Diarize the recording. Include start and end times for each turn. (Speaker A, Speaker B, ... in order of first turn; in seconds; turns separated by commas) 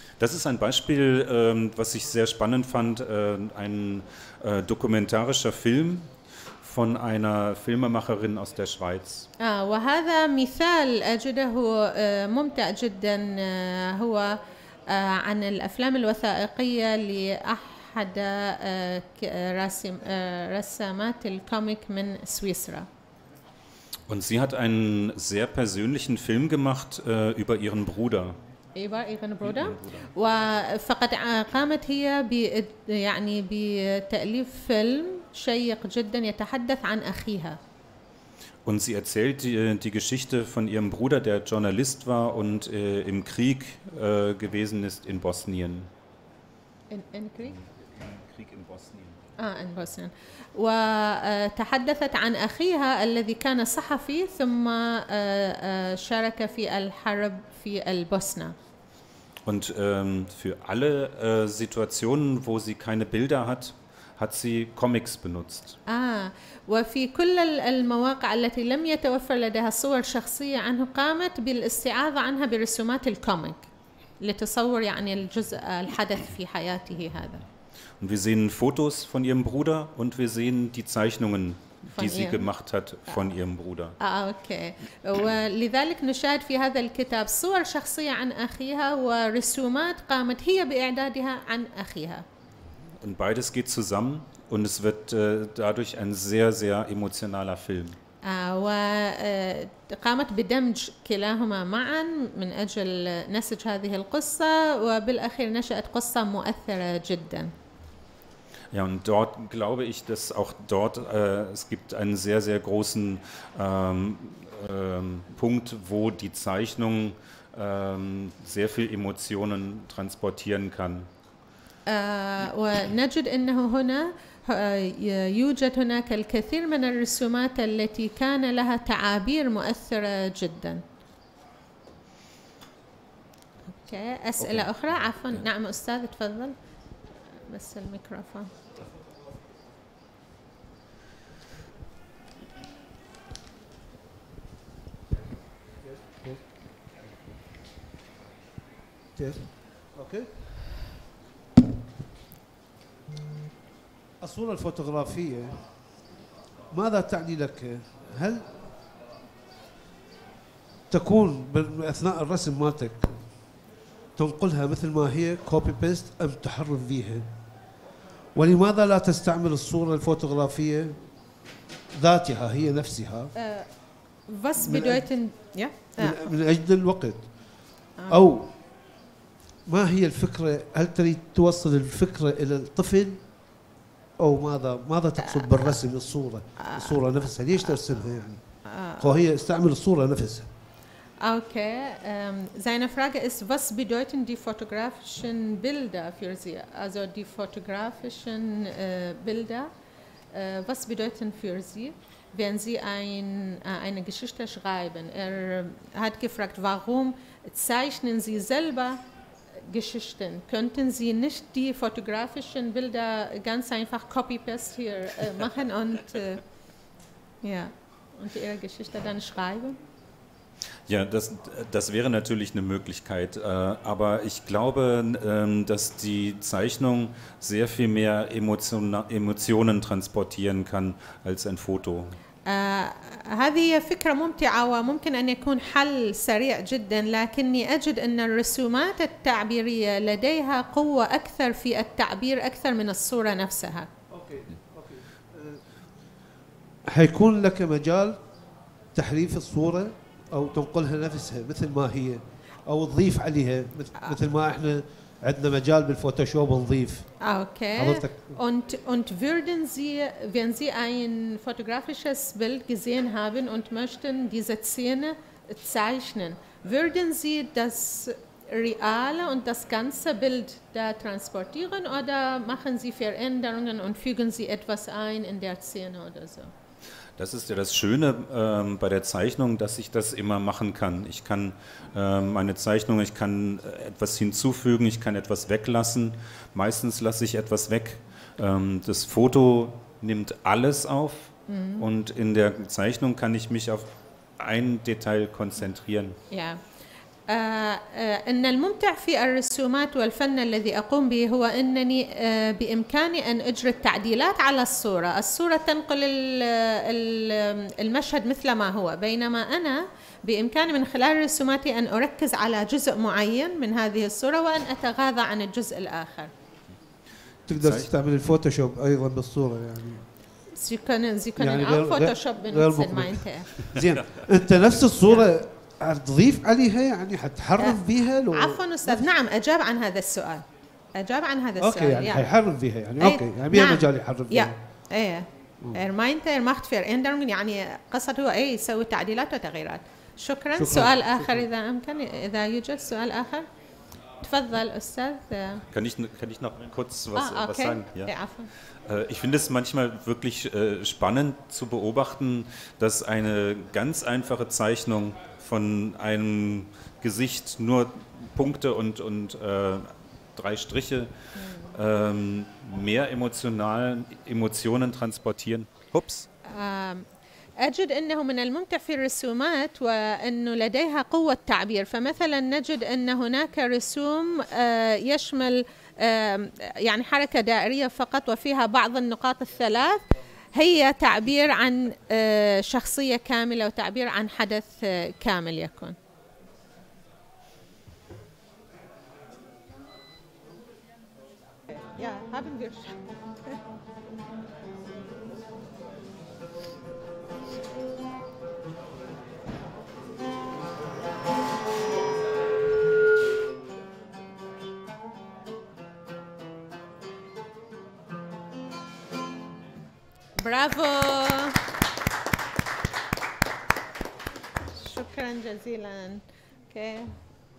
Speaker A: 0.2-6.1, Speaker A: 6.6-9.3, Speaker B: 9.4-22.9, Speaker A: 24.1-28.4, Speaker B: 28.8-37.6, Speaker A: 29.4-30.1, Speaker A: 38.6-45.9, Speaker B: 46.9-47.6, Speaker A: 47.4-49.2, Speaker B: 49.4-58.5, Speaker A: 59.5-65.8, Speaker B: 65.9-73.6, Speaker B: 74.2-77.4, Speaker A: 78.0-84.0, Speaker B: 82.0-82.5, Speaker B: 84.0-92.2, Speaker A: 93.0-98.0, Speaker B: 98.2-107.5, Speaker A: 108.7-121.1, Speaker B: 121.9-130.8, Speaker B: 133.7-136.6, Speaker A: 134.4-134.7, Speaker B: 137.5-138.5, Speaker C: 145.8-146.9, Speaker C: 149.2-150.8, Speaker C: 154.2-156.0, Speaker C: 156.7-158.6, Speaker C: 160.9-163.2, Speaker C: 164.2-167.3, Speaker C: 168.3-171.2, Speaker C: 172.0-173.3, Speaker B: 173.4-173.7, Speaker B: 174.3-176.2, Speaker C: 174.6-175.2, Speaker C: 176.0-178.6, Speaker B: 178.0-178.2, Speaker C: 179.7-183.3, Speaker C: 184.2-188.4, Speaker B: 185.2-185.8, Speaker B: 186.6-187.8, Speaker B: 188.7-189.1, Speaker C: 189.0-190.5, Speaker B: 191.2-199.7, Speaker B: 200.3-209.0, Speaker B: 209.6-216.4, Speaker B: 217.4-219.8, Speaker A: 220.9-232.2, Speaker B: 232.5-243.9, Speaker C: 244.1-245.6, Speaker C: 246.9-248.2, Speaker C: 248.9-257.2, Speaker B: 257.2-276.5, Speaker C: 257.8-258.4, Speaker A: 277.2-296.2, Speaker B: 291.5-291.9, Speaker B: 296.3-296.6, Speaker B: 297.3-316.3, Speaker C: 317.5-320.1, Speaker A: 317.6-317.9, Speaker B: 320.6-323.8, Speaker C: 321.4-329.1, Speaker B: 325.0-325.3, Speaker B: 327.6-332.2, Speaker C: 331.6-334.6, Speaker B: 333.0-343.5, Speaker C: 340.6-341.3, Speaker B: 344.2-345.6, Speaker A: 345.7-348.1, Speaker B: 347.2-348.5, Speaker A: 348.8-366.3, Speaker B: 361.4-361.8, Speaker B: 366.4-367.1, Speaker B: 367.6-386.0, Speaker B: 391.8-393.1, Speaker B: 410.4-411.6, Speaker B: 414.7-417.1